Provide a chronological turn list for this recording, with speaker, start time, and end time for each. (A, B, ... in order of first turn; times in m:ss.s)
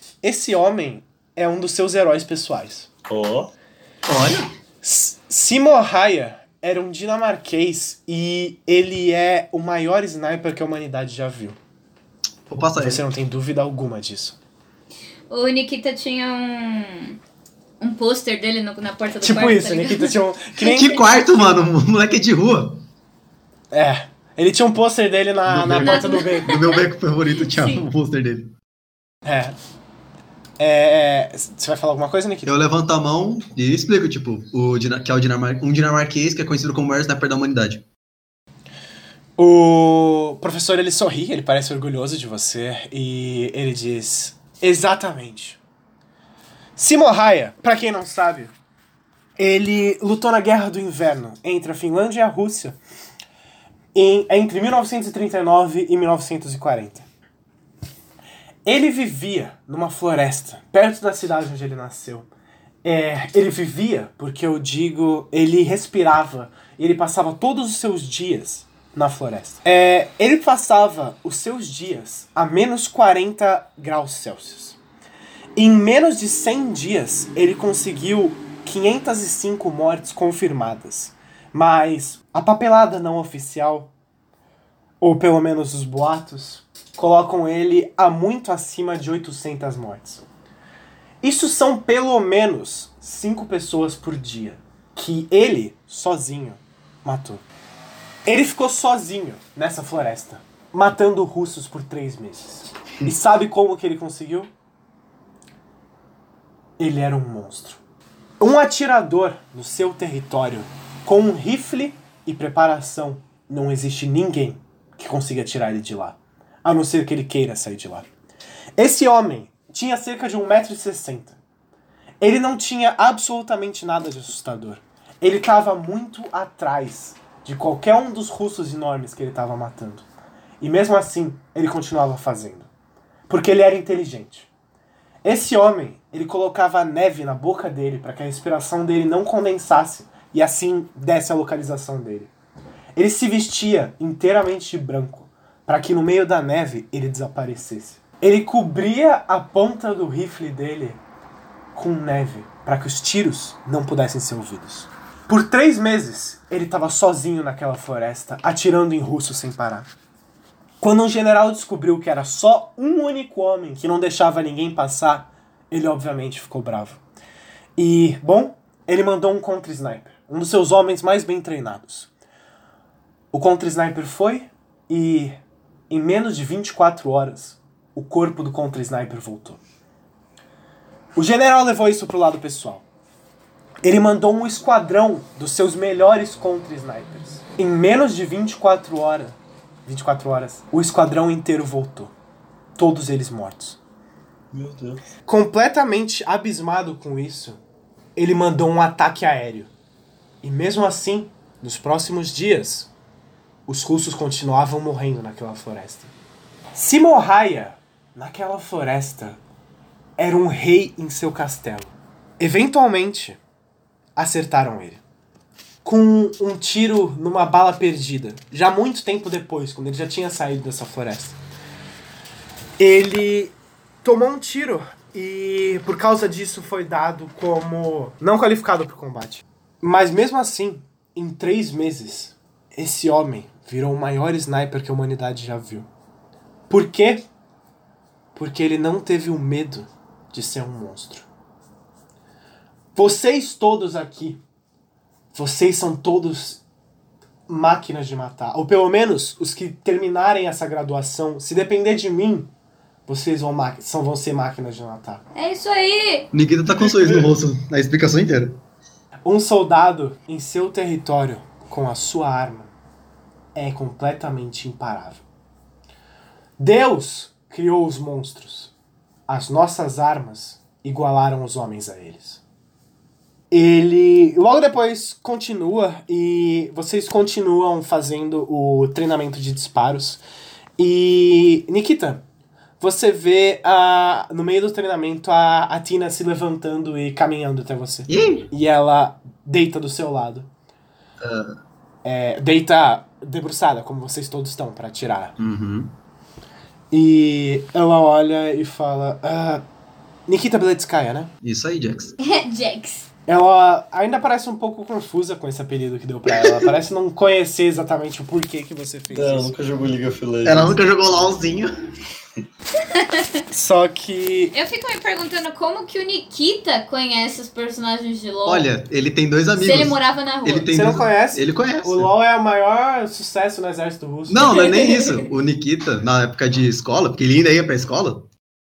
0:00.2-0:02.9 A
0:03.1-0:03.5 B
0:04.1-0:04.5 C
0:04.8-0:11.6 A
0:12.5-0:13.0 C
0:12.8-0:14.4 A
0:15.3-0:17.2 D
0:17.8-0:20.1 D
0:19.2-0:21.0 A
0:20.6-0:22.8 C
0:23.7-0:26.6 A
0:25.5-0:28.5 C
0:25.8-0:27.8 D
0:29.2-0:29.6 A
0:30.6-0:32.6 A
0:32.4-0:37.8 C
0:39.4-0:45.6 A
0:46.8-0:48.5 A
0:49.4-0:52.8 A
0:54.0-0:57.0 A
0:58.6-1:02.3 A
1:02.8-1:14.8 A
1:15.6-1:23.9 A
1:25.0-1:30.2 A
1:31.2-1:37.4 A
1:38.3-1:44.5 A
1:46.8-1:47.8 A
1:48.4-1:58.1 A
1:58.8-2:01.4 A
2:02.2-2:10.0 A
2:10.6-2:12.7 A
2:13.3-2:14.5 A
2:15.2-2:22.3 A
2:23.0-2:31.0 A
2:31.7-2:39.9 A
2:40.8-2:47.0 A
2:47.8-2:52.1 A
2:53.3-2:55.4 A
2:55.9-2:59.6 A
3:01.2-3:02.8 A
3:03.8-3:12.1 A
3:12.8-3:13.8 A
3:14.5-3:15.0 B
3:15.3-3:17.6 A
3:18.2-3:19.7 A
3:20.4-3:22.9 A
3:23.7-3:26.1 A
3:26.8-3:29.4 A
3:30.2-3:33.4 A
3:34.2-3:35.0 A
3:35.8-3:41.4 A
3:42.8-3:55.9 A
3:56.7-3:57.3 A
3:58.4-4:01.3 A
4:03.0-4:04.4 A
4:05.3-4:06.6 A
4:07.5-4:12.5 A
4:13.1-4:15.2 A
4:15.4-4:16.3 D
4:16.3-4:18.6 C
4:16.7-4:17.3 B
4:19.2-4:22.7 A
4:23.6-4:25.2 A
4:26.6-4:28.7 A
4:29.3-4:32.4 A
4:33.5-4:40.2 A
4:40.8-4:42.2 A
4:42.8-4:50.5 A
4:48.1-4:48.5 C
4:51.2-4:51.6 C
4:52.0-4:55.4 A
4:55.4-4:56.0 C
4:56.9-4:59.6 A
5:00.3-5:01.3 A
5:01.4-5:02.2 C
5:02.2-5:03.1 D
5:03.3-5:09.5 A
5:09.1-5:10.8 B
5:10.4-5:11.7 C
5:12.9-5:13.3 D
5:13.5-5:14.6 A
5:14.5-5:18.7 D
5:18.5-5:22.1 C
5:19.5-5:20.7 D
5:20.7-5:24.6 A
5:24.3-5:28.3 C
5:24.5-5:25.3 D